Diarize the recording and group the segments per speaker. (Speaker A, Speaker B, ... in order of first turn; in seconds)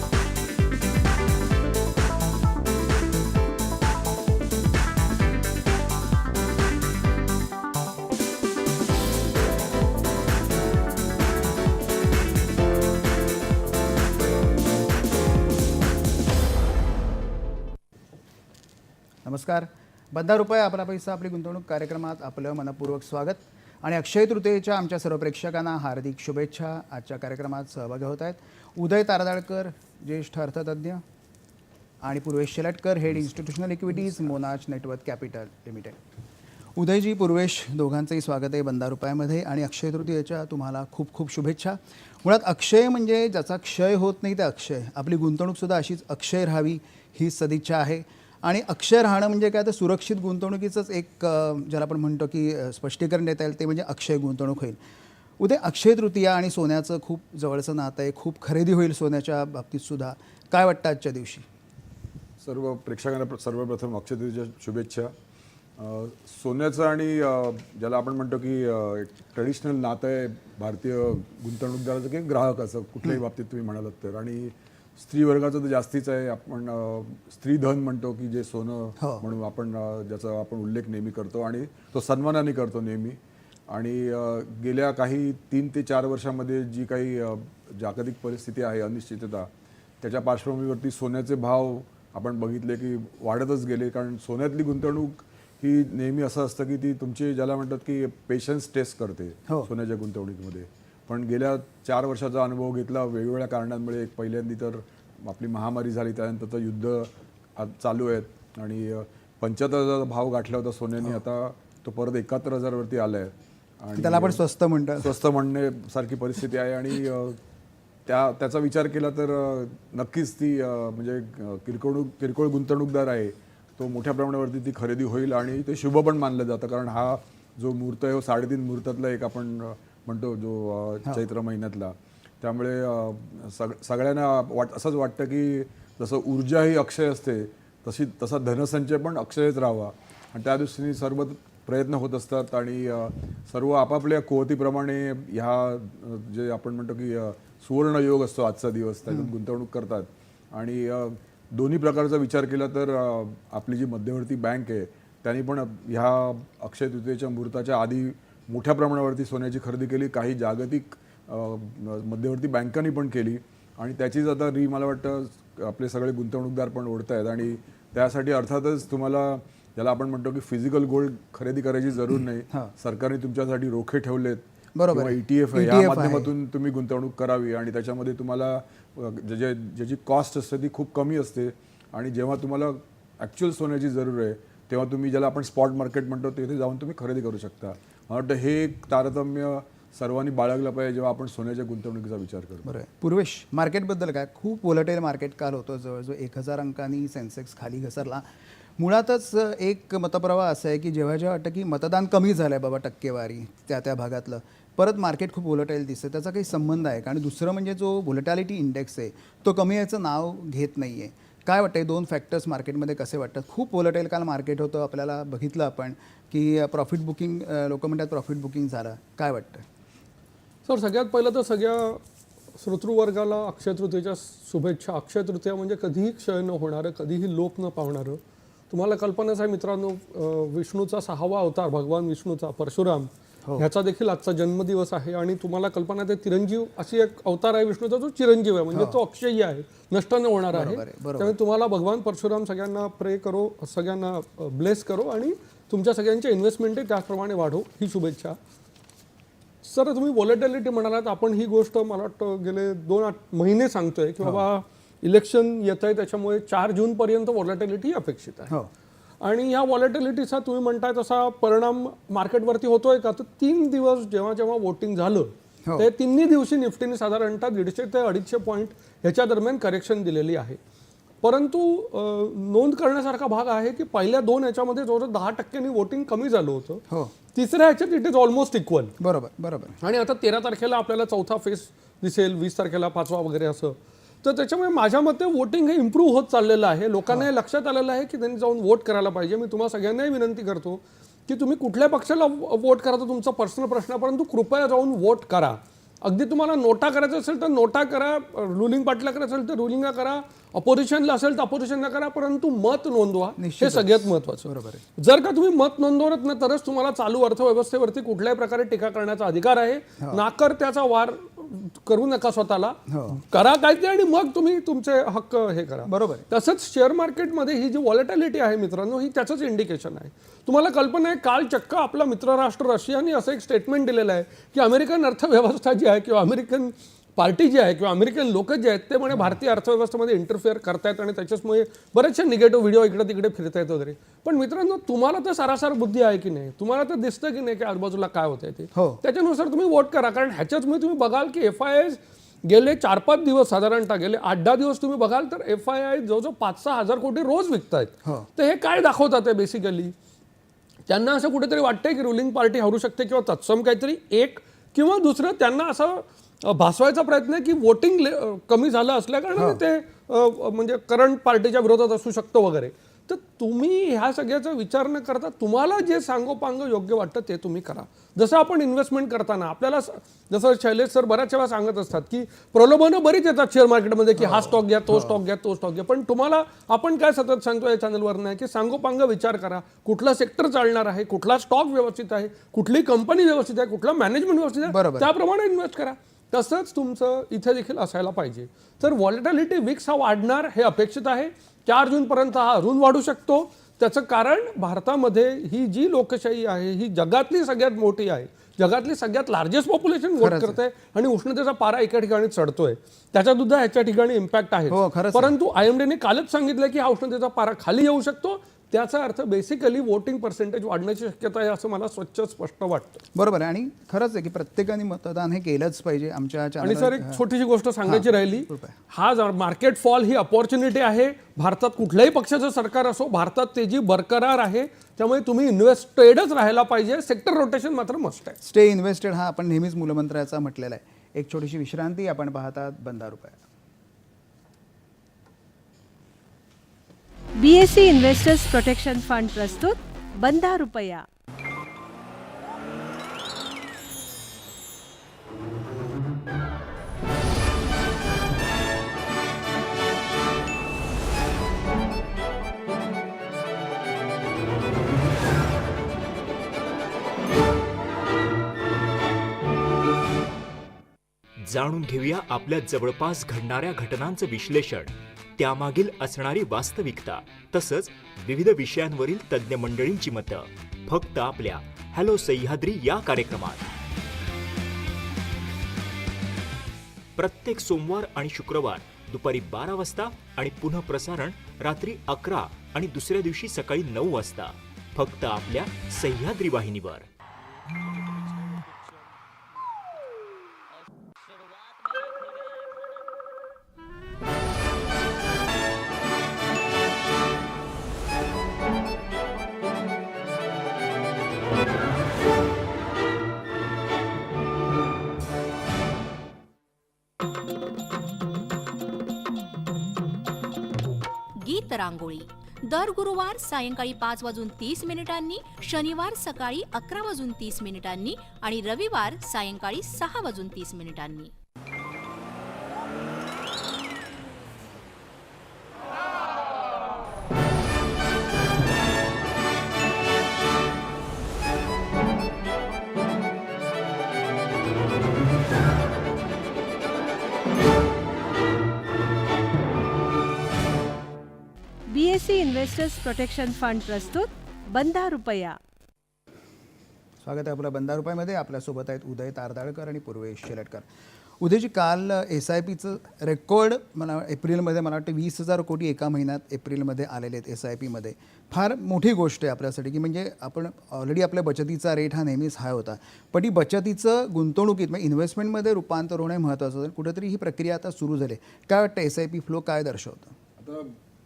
Speaker A: 19.2-31.0, 32.0-36.0, 36.8-54.8, 55.4-61.5, 79.0-79.2, 113.9-115.2, 174.8-176.3, 192.6-198.2, 198.8-219.6, 238.7-239.0, 240.5-241.3, 279.0-279.8, 303.4-304.8, 312.9-313.2, 315.9-316.2, 338.8-339.0, 359.4-359.6, 374.2-375.2, 384.7-385.1, 400.2-400.6, 404.7-405.3, 413.1-417.2, 417.9-418.7, 428.4-433.4, 547.2-550.9, 551.4-570.4
Speaker B: 62.4-65.1, 65.8-83.2, 83.7-89.5, 90.0-114.4, 115.0-117.4, 118.1-192.7, 570.6-571.0
Speaker C: 220.7-222.0, 222.6-248.4, 249.6-258.5, 259.2-270.6, 271.2-278.9, 279.8-349.9, 350.9-413.0, 416.6-428.4
Speaker D: 437.4-441.0, 541.9-545.6
Speaker E: 461.4-473.6, 477.1-487.1
Speaker F: 511.4-521.3